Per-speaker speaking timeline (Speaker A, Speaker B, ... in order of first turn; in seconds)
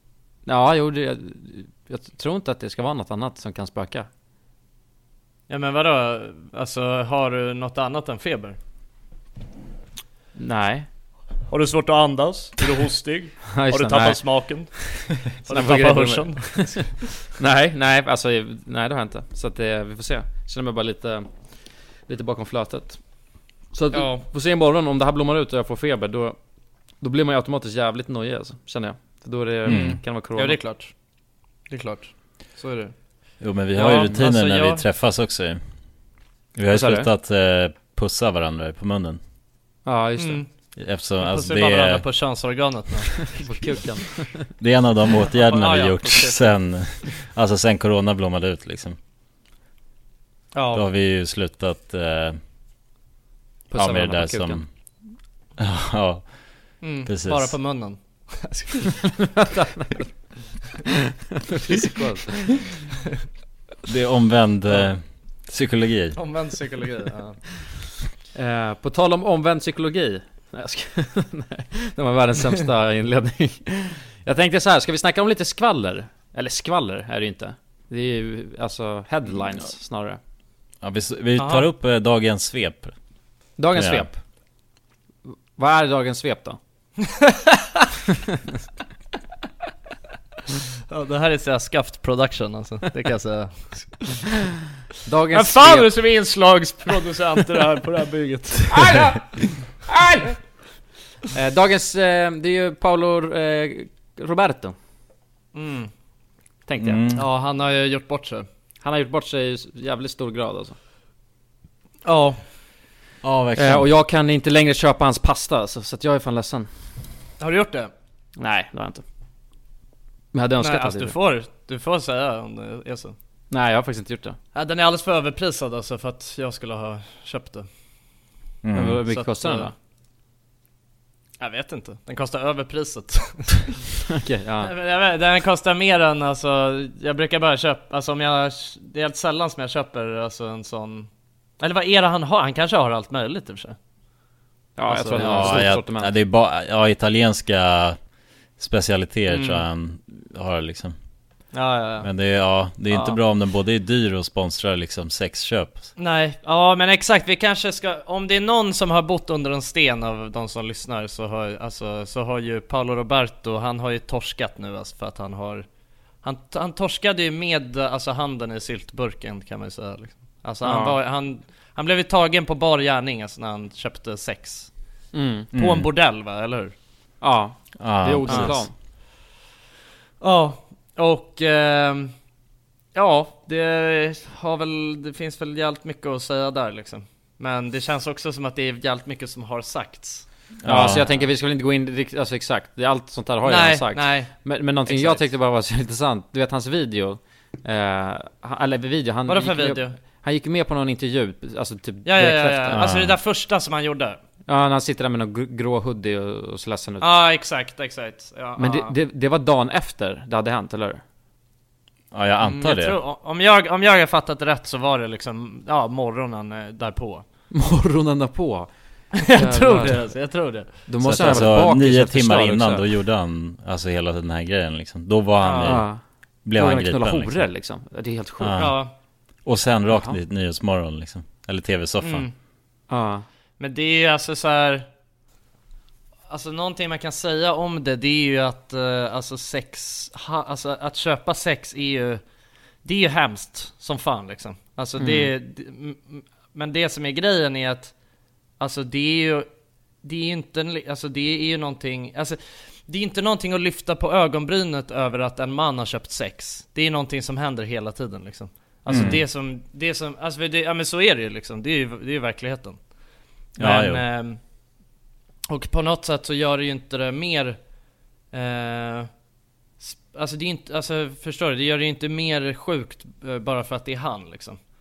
Speaker A: 0.5-4.1, 10.3-10.9, 13.5-14.2, 15.5-21.3, 22.1-23.0, 23.7-26.4, 27.0-30.6, 36.7-37.1, 39.9-40.4, 43.3-44.5, 53.7-54.6, 59.2-60.1, 61.4-62.7, 68.3-80.2, 83.6-84.2, 85.3-86.6, 95.0-95.9, 98.7-100.4, 101.3-104.8, 106.7-107.0, 108.8-110.8, 113.5-116.7, 118.4-119.0, 120.3-121.1, 123.5-124.4, 128.7-129.7, 134.1-134.7, 144.8-146.2, 170.6-171.0, 175.1-175.5, 177.2-178.7, 190.6-202.9, 204.5-207.1, 208.6-211.0, 217.5-218.7, 219.2-220.1, 220.8-222.9, 225.6-226.0, 226.5-228.7, 229.9-230.2, 232.9-233.2, 245.0-245.3
Speaker B: 5.5-8.6, 11.5-14.8, 15.4-17.1, 23.9-24.2, 29.7-30.9, 31.7-32.9, 33.7-34.8, 40.2-40.5, 41.2-43.6, 45.3-46.5, 50.5-50.9, 56.8-59.3, 66.1-67.4, 81.4-81.7, 87.0-87.8, 90.9-94.2, 95.3-99.0, 105.5-105.9, 107.1-108.5, 112.0-112.4, 117.4-117.9, 120.6-123.1, 124.5-127.7, 129.1-129.7, 131.4-133.8, 134.6-141.1, 141.6-143.8, 144.9-145.6, 149.3-149.6, 151.5-152.1, 152.9-153.2, 156.0-165.7, 166.2-174.7, 175.5-176.7, 178.2-178.6, 180.2-182.1, 182.9-190.3, 193.4-195.3, 199.3-199.9, 202.0-204.2, 207.0-208.9, 212.4-217.2, 219.2-220.9, 225.4-225.8, 228.6-228.9, 232.0-232.3, 233.6-234.9, 236.3-242.2, 242.8-247.9, 248.6-249.5, 250.0-262.8, 263.6-264.4, 265.5-267.6, 268.3-269.1, 269.8-274.6
Speaker C: 29.7-30.0, 33.4-35.6, 36.5-39.2, 40.8-42.0, 44.6-49.0, 50.7-52.4, 53.7-54.6, 55.6-56.3, 57.0-57.6, 63.8-66.2, 80.8-82.9, 83.7-84.1, 106.8-107.2, 113.2-113.9, 128.6-129.0, 145.1-148.0, 148.6-150.9, 152.0-155.9, 175.5-175.9, 177.8-178.7, 190.6-191.1, 202.7-203.2, 212.1-213.0, 221.0-225.9, 226.4-227.5, 228.4-228.8, 229.4-232.2, 258.9-259.2, 263.6-264.0